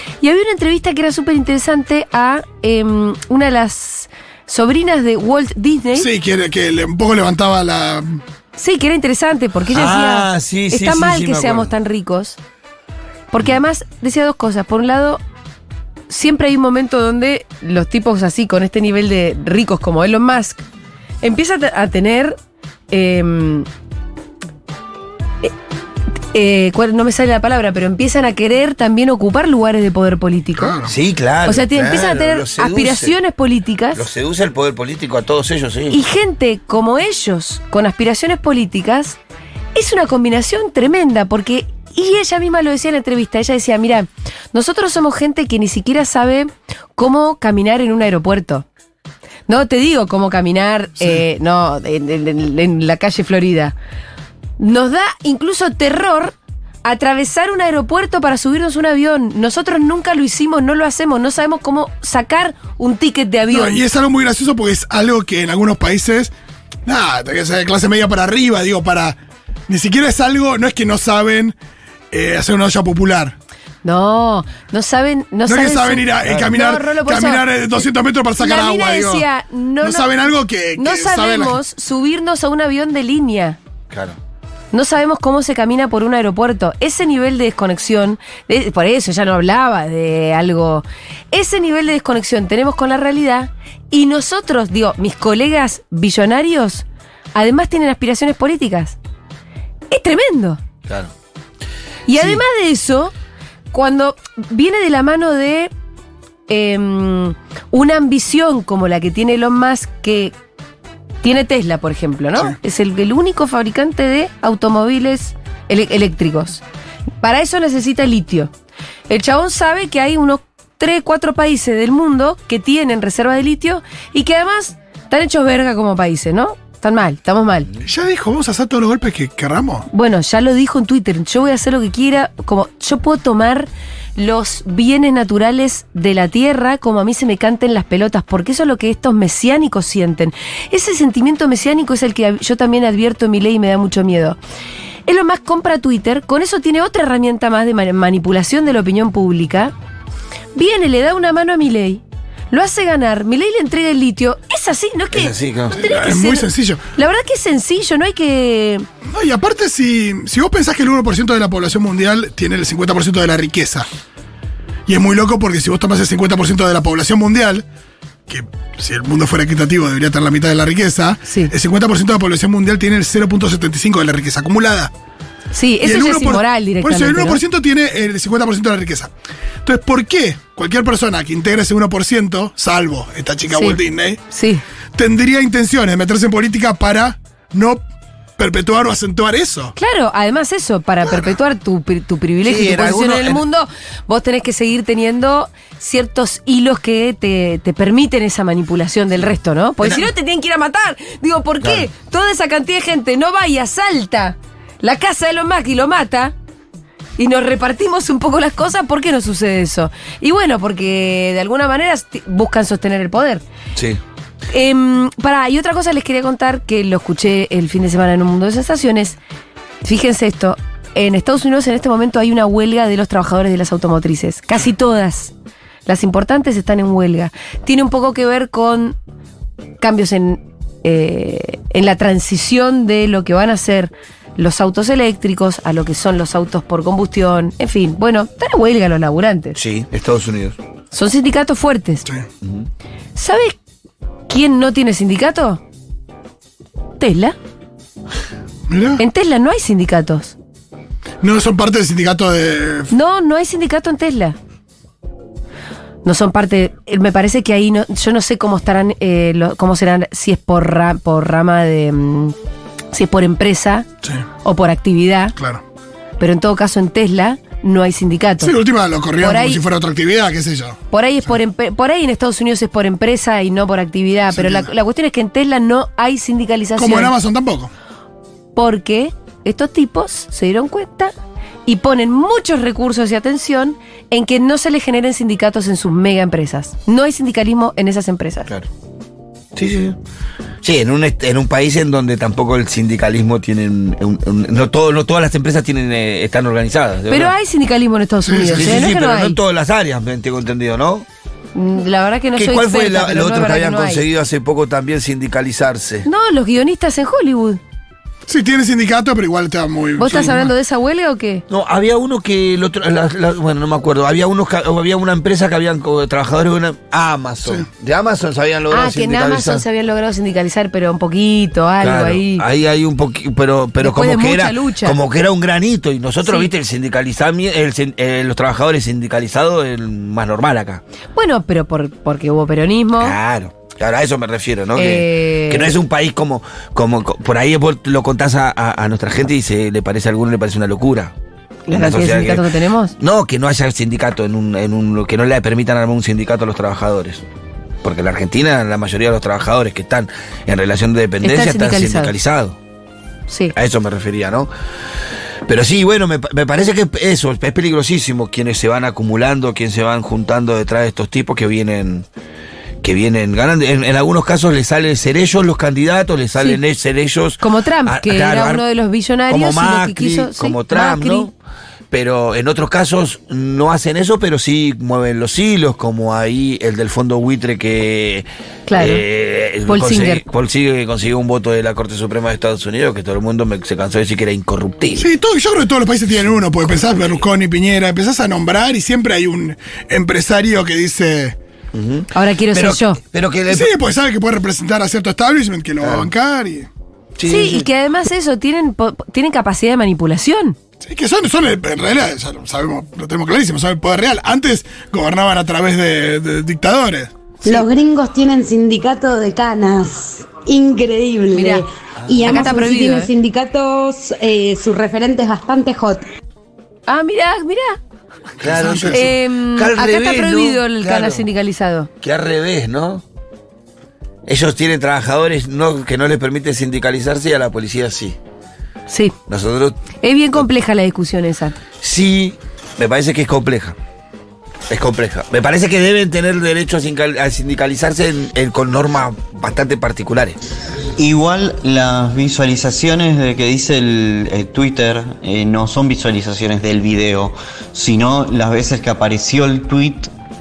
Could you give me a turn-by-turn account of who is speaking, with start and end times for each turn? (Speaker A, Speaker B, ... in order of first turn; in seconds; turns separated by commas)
Speaker A: 0.2-6.1, Speaker B: 6.0-8.2, Speaker A: 8.6-12.4, Speaker C: 9.7-11.7, Speaker A: 13.3-15.2, Speaker A: 16.1-20.6, Speaker A: 21.2-22.4, Speaker A: 22.9-23.7, Speaker A: 26.3-30.7, Speaker B: 30.6-30.9, Speaker C: 30.9-33.1, Speaker A: 31.4-34.0, Speaker C: 33.9-36.0, Speaker A: 35.9-39.2, Speaker A: 39.7-48.6, Speaker A: 49.5-53.7, Speaker A: 54.6-63.8, Speaker B: 63.5-66.3, Speaker B: 66.8-71.5, Speaker B: 72.1-73.3, Speaker A: 73.8-77.5, Speaker B: 75.5-79.2, Speaker C: 76.2-76.6, Speaker A: 78.4-80.1, Speaker B: 79.8-81.6, Speaker A: 80.8-83.6, Speaker C: 83.9-84.2, Speaker A: 84.7-99.0, Speaker A: 99.9-100.6, Speaker C: 100.8-101.1, Speaker A: 102.1-103.1, Speaker C: 102.1-102.4, Speaker A: 103.7-105.7, Speaker A: 106.5-110.3, Speaker A: 111.2-116.6, Speaker A: 117.2-118.5, Speaker A: 119.1-127.7, Speaker B: 127.8-129.9, Speaker A: 129.9-144.4, Speaker A: 145.1-149.7, Speaker A: 150.5-158.8, Speaker C: 155.1-155.8, Speaker B: 155.7-156.8, Speaker B: 159.1-163.9, Speaker B: 164.9-167.6, Speaker B: 168.3-174.9, Speaker A: 171.3-171.5, Speaker A: 175.5-177.4, Speaker B: 175.8-179.1, Speaker B: 179.6-184.2, Speaker A: 183.5-183.8, Speaker A: 184.3-184.6, Speaker B: 184.9-187.8, Speaker B: 188.4-189.7, Speaker A: 189.8-206.3, Speaker B: 191.0-191.3, Speaker C: 192.4-193.4, Speaker A: 207.2-213.4, Speaker C: 213.7-214.0, Speaker A: 214.5-219.2, Speaker A: 219.8-225.3, Speaker A: 225.9-228.9, Speaker A: 229.8-239.6, Speaker C: 239.6-240.6, Speaker A: 240.9-242.0, Speaker A: 243.2-243.6, Speaker A: 244.3-245.6, Speaker A: 247.0-247.3, Speaker B: 248.7-249.0, Speaker A: 249.0-250.3, Speaker B: 251.2-252.9, Speaker A: 252.9-254.4, Speaker A: 256.0-262.3, Speaker A: 262.9-263.9, Speaker A: 264.4-265.3, Speaker B: 265.4-265.6, Speaker A: 266.2-268.5, Speaker B: 268.4-270.8, Speaker A: 269.2-269.6, Speaker A: 270.9-277.1, Speaker B: 274.3-274.7, Speaker B: 276.8-277.7, Speaker A: 278.6-281.1, Speaker A: 281.6-288.5, Speaker C: 289.5-289.9, Speaker C: 290.6-297.3, Speaker A: 297.1-299.4, Speaker B: 298.2-298.8, Speaker C: 298.6-301.1, Speaker A: 301.5-304.0, Speaker C: 302.4-306.1, Speaker A: 306.0-307.6, Speaker B: 308.3-310.5, Speaker A: 310.0-311.4, Speaker C: 311.5-319.6, Speaker A: 318.7-322.4, Speaker C: 321.8-330.8, Speaker A: 323.8-325.0, Speaker A: 331.1-333.1, Speaker C: 333.0-341.1, Speaker A: 334.8-335.7, Speaker A: 341.7-342.9, Speaker C: 341.7-342.4, Speaker C: 343.0-347.2, Speaker C: 347.8-352.6, Speaker A: 351.2-352.1, Speaker A: 353.3-353.5, Speaker C: 353.5-354.5, Speaker C: 355.4-362.1, Speaker C: 362.8-368.6, Speaker A: 367.4-371.3, Speaker C: 369.3-371.3, Speaker C: 371.9-385.1, Speaker A: 378.7-379.0, Speaker A: 379.7-380.2, Speaker B: 384.9-391.4, Speaker C: 391.7-393.7, Speaker A: 392.1-393.0, Speaker B: 393.5-396.7, Speaker C: 395.8-396.1, Speaker C: 397.2-397.7, Speaker A: 397.2-400.6, Speaker B: 400.8-407.1, Speaker D: 407.4-416.0, Speaker A: 411.3-411.6, Speaker C: 412.0-412.5, Speaker A: 412.2-413.1, Speaker A: 416.9-417.8, Speaker B: 418.4-419.1, Speaker C: 418.4-421.2, Speaker A: 418.9-421.9, Speaker C: 422.0-423.0, Speaker C: 424.2-428.2, Speaker A: 428.9-429.1, Speaker C: 429.3-429.8, Speaker A: 430.0-431.6, Speaker C: 431.8-433.8, Speaker C: 434.7-440.4, Speaker E: 440.9-450.1